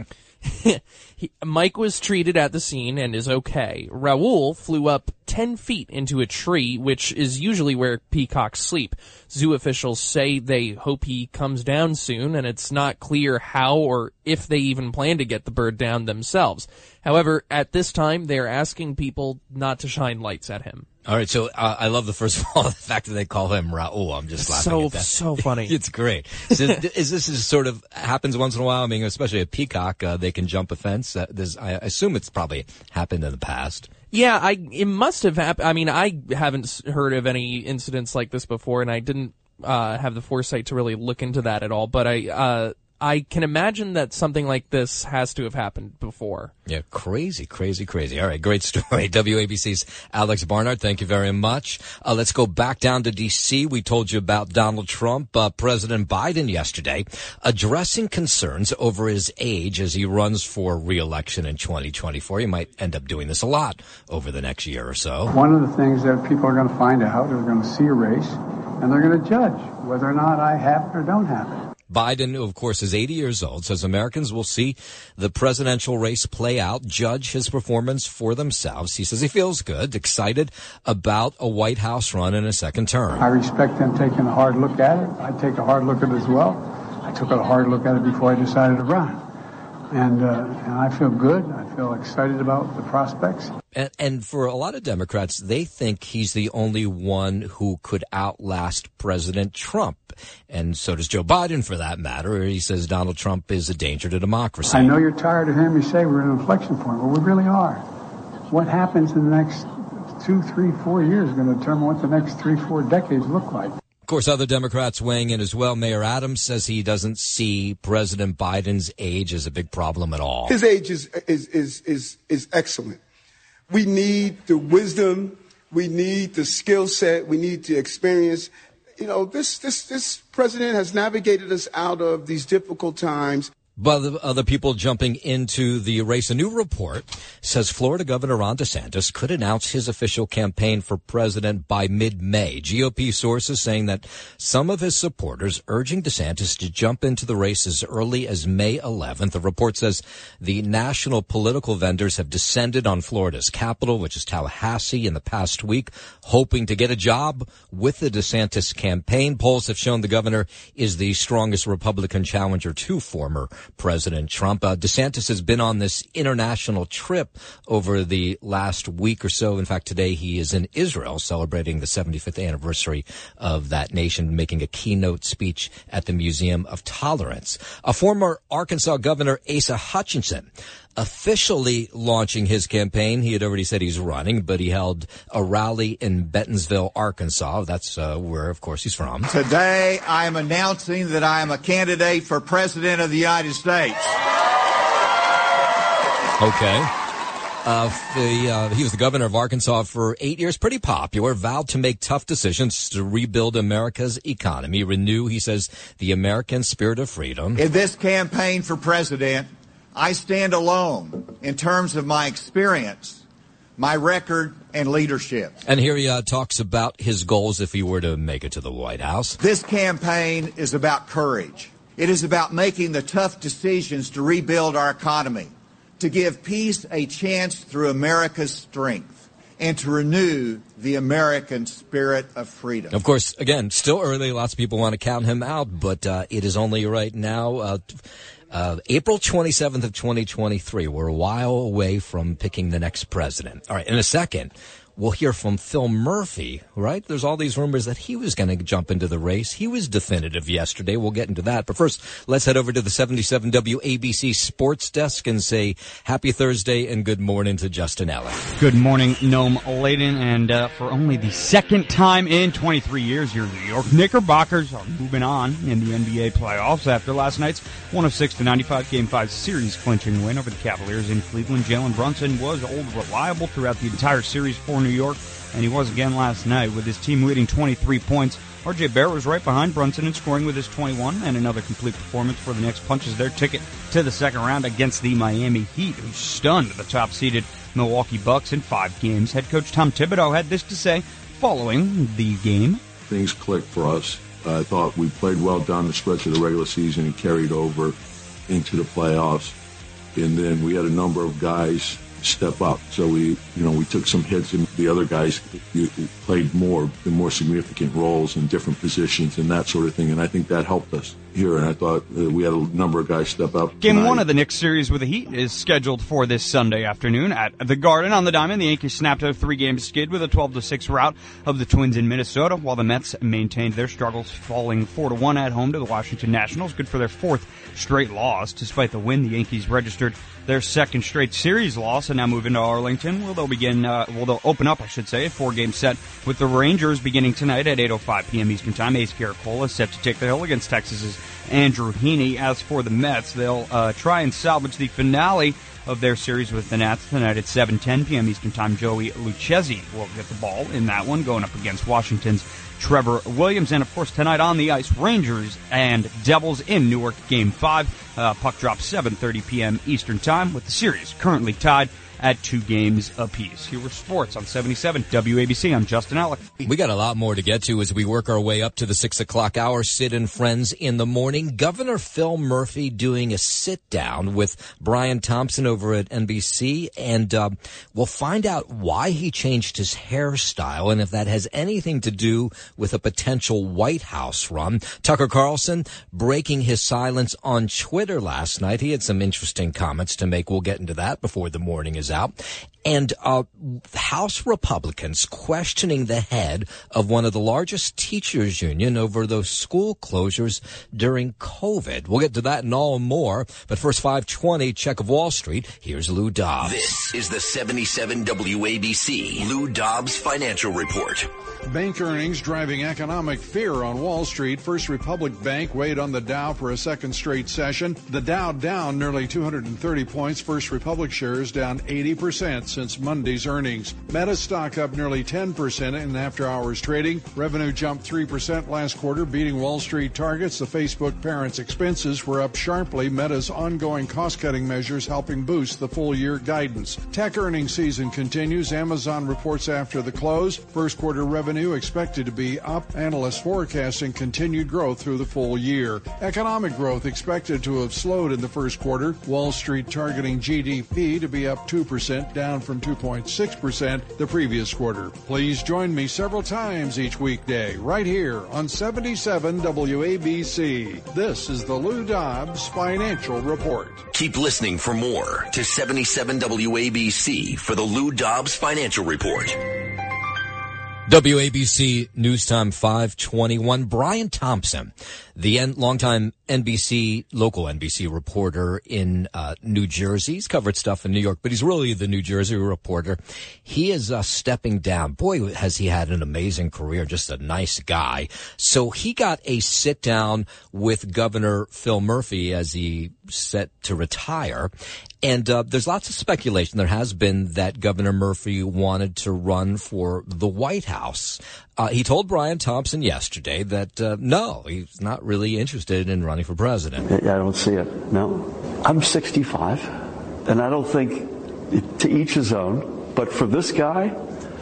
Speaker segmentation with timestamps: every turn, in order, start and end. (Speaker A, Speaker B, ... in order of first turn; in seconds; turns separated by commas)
Speaker A: 0.5-20.9, Speaker B: 21.1-33.9, Speaker A: 24.4-25.8, Speaker A: 34.1-46.5, Speaker B: 46.7-65.3, Speaker C: 65.3-71.7, Speaker B: 71.9-83.3, Speaker C: 83.2-89.2, Speaker C: 89.9-93.5, Speaker B: 93.8-104.9, Speaker C: 104.7-107.8, Speaker C: 108.5-113.8, Speaker B: 114.1-120.5, Speaker D: 120.5-123.0, Speaker D: 123.7-133.5, Speaker B: 133.8-189.3, Speaker E: 189.3-194.2, Speaker B: 196.4-196.9, Speaker B: 197.7-207.6, Speaker E: 207.6-213.2, Speaker E: 213.8-215.6, Speaker B: 215.7-219.4, Speaker E: 219.4-232.9, Speaker B: 232.9-237.9, Speaker B: 238.5-258.4, Speaker F: 258.6-292.8, Speaker G: 293.1-298.0, Speaker G: 298.5-299.6, Speaker G: 300.1-314.3, Speaker F: 313.8-366.5, Speaker B: 366.6-406.9, Speaker H: 406.6-411.3, Speaker I: 411.7-464.1, Speaker H: 464.1-469.6, Speaker B: 471.1-494.7, Speaker B: 495.2-507.1, Speaker J: 507.1-514.2